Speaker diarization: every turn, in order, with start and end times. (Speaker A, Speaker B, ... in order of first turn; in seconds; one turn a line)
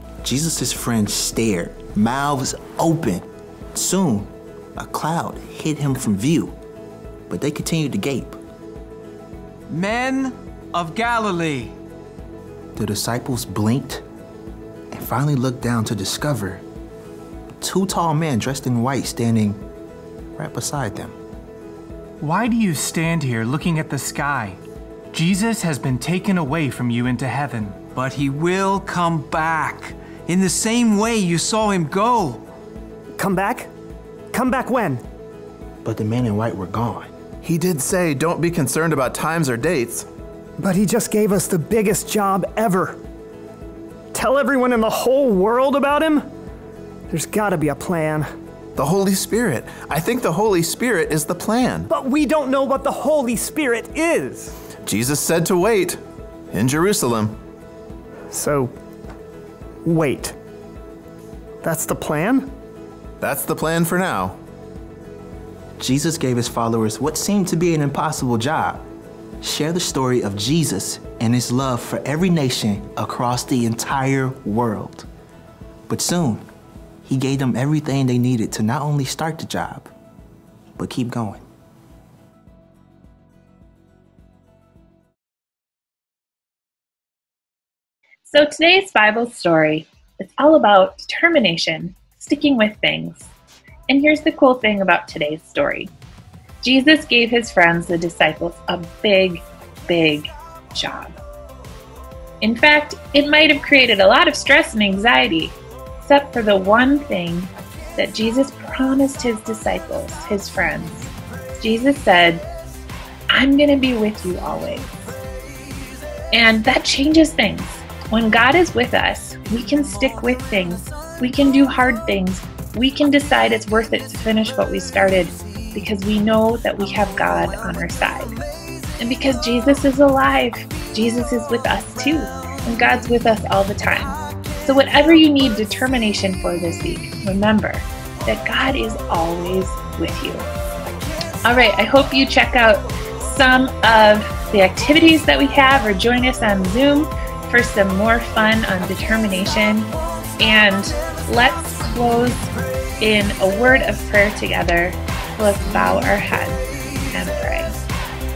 Speaker A: 0.2-6.5
Speaker A: 7.3-8.4
Speaker B: 9.7-11.7
Speaker A: 12.8-14.0
Speaker A: 14.9-16.6
Speaker A: 17.6-19.6
Speaker A: 20.4-21.1
Speaker B: 22.2-24.6
Speaker B: 25.1-32.5
Speaker C: 33.2-33.7
Speaker C: 34.3-35.0
Speaker A: 35.8-37.1
Speaker D: 37.4-40.0
Speaker C: 40.6-43.0
Speaker C: 44.1-46.3
Speaker C: 47.1-48.2
Speaker D: 48.8-51.9
Speaker C: 51.9-54.5
Speaker D: 54.8-56.0
Speaker D: 56.5-57.4
Speaker C: 58.3-58.7
Speaker C: 59.8-60.4
Speaker C: 61.6-62.5
Speaker D: 63.2-64.4
Speaker A: 65.8-68.8
Speaker A: 69.4-75.1
Speaker A: 75.9-76.5
Speaker A: 77.0-79.9
Speaker A: 80.8-81.4
Speaker E: 88.2-93.3
Speaker E: 93.9-95.9
Speaker E: 96.6-101.2
Speaker E: 102.4-112.4
Speaker E: 113.3-115.0
Speaker E: 116.3-128.4
Speaker E: 129.0-140.5
Speaker E: 141.4-157.7